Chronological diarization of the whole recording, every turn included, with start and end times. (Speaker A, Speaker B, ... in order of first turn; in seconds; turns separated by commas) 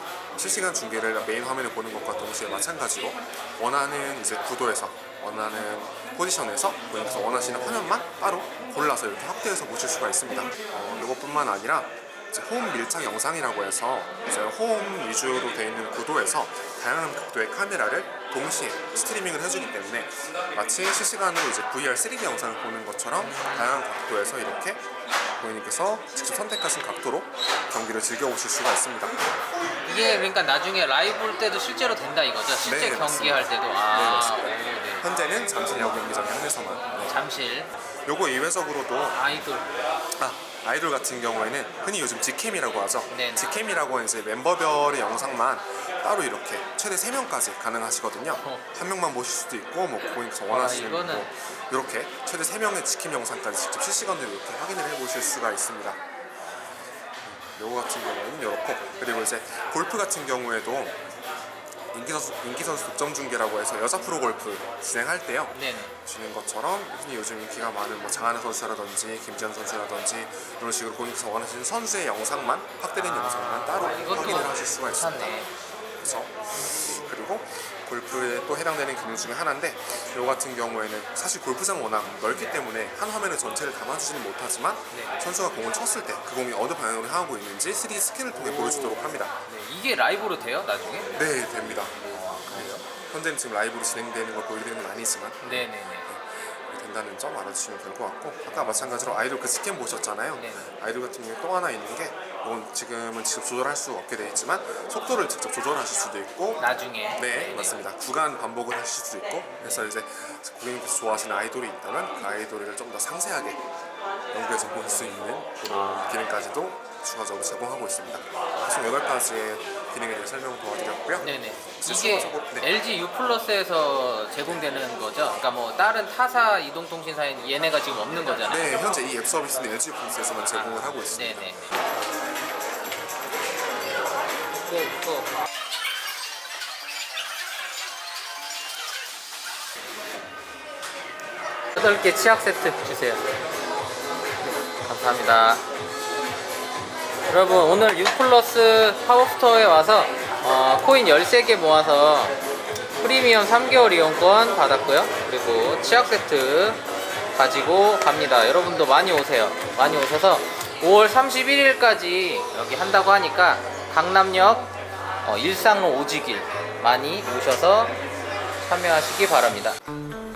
Speaker A: 0.3-29.1, Speaker B: 29.8-35.0, Speaker A: 32.6-37.1, Speaker B: 37.0-37.7, Speaker A: 38.0-39.2, Speaker B: 39.1-39.7, Speaker A: 40.2-56.0, Speaker B: 43.1-43.6, Speaker B: 48.4-48.6, Speaker B: 50.5-51.3, Speaker A: 57.2-61.0, Speaker A: 61.9-75.5, Speaker B: 65.5-65.9, Speaker B: 73.0-75.5, Speaker A: 76.0-89.3, Speaker B: 88.4-91.1, Speaker A: 91.1-113.6, Speaker B: 92.1-92.8, Speaker B: 95.4-96.1, Speaker B: 100.3-100.7, Speaker B: 106.6-107.8, Speaker B: 109.5-109.9, Speaker A: 114.3-122.7, Speaker B: 114.8-115.1, Speaker B: 115.7-116.5, Speaker B: 121.2-128.7, Speaker A: 128.5-131.5, Speaker B: 130.5-131.8, Speaker B: 134.5-135.3, Speaker B: 141.7-143.2, Speaker B: 144.8-145.6, Speaker B: 147.3-152.4, Speaker B: 153.0-156.8, Speaker B: 157.3-164.7, Speaker B: 165.2-167.9, Speaker B: 168.6-169.8